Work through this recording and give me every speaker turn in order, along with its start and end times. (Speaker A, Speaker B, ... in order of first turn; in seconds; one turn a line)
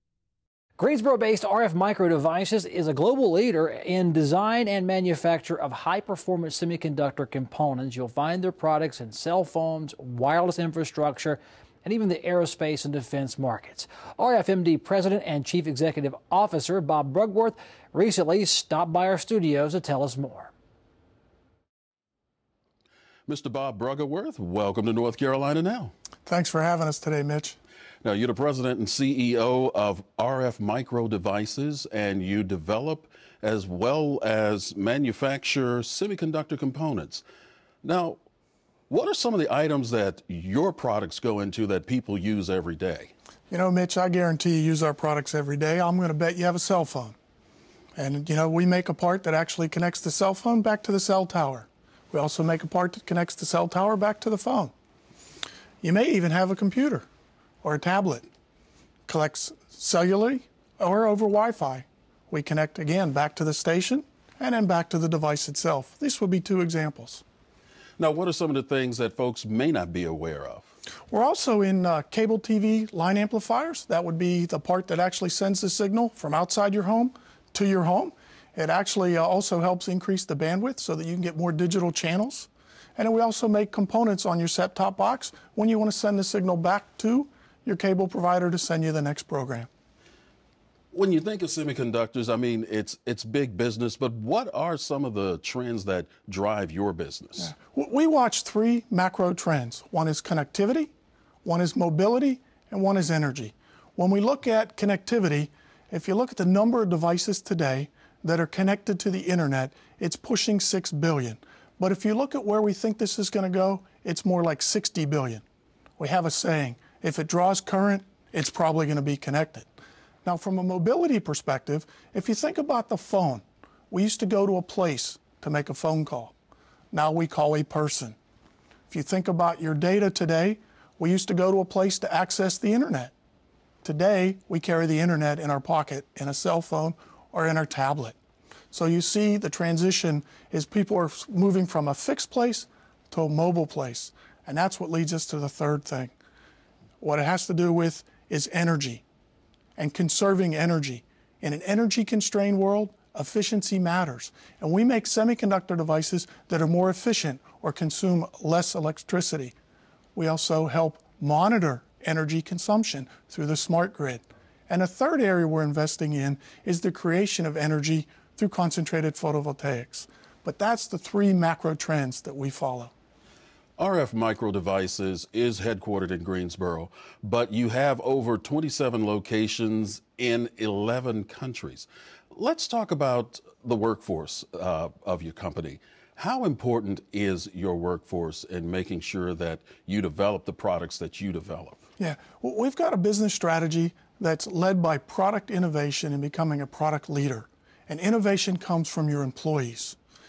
Speaker A: 0.8-20.5
Speaker B: 23.3-25.9
Speaker C: 26.3-27.6
Speaker B: 28.0-37.2
Speaker B: 37.8-38.2
Speaker B: 38.9-43.1
Speaker C: 43.5-47.2
Speaker C: 48.0-54.7
Speaker C: 55.8-57.1
Speaker C: 57.6-58.3
Speaker C: 59.1-67.2
Speaker B: 68.0-70.7
Speaker C: 71.1-89.7
Speaker B: 90.9-97.5
Speaker C: 97.4-100.9
Speaker C: 101.4-115.4
Speaker C: 116.0-119.7
Speaker C: 120.2-126.3
Speaker C: 126.9-128.2
Speaker C: 128.9-133.1
Speaker C: 133.8-138.2
Speaker C: 138.7-146.1
Speaker C: 147.0-149.0
Speaker C: 149.8-159.6
Speaker C: 160.2-172.9
Speaker B: 173.8-191.8
Speaker C: 192.0-200.0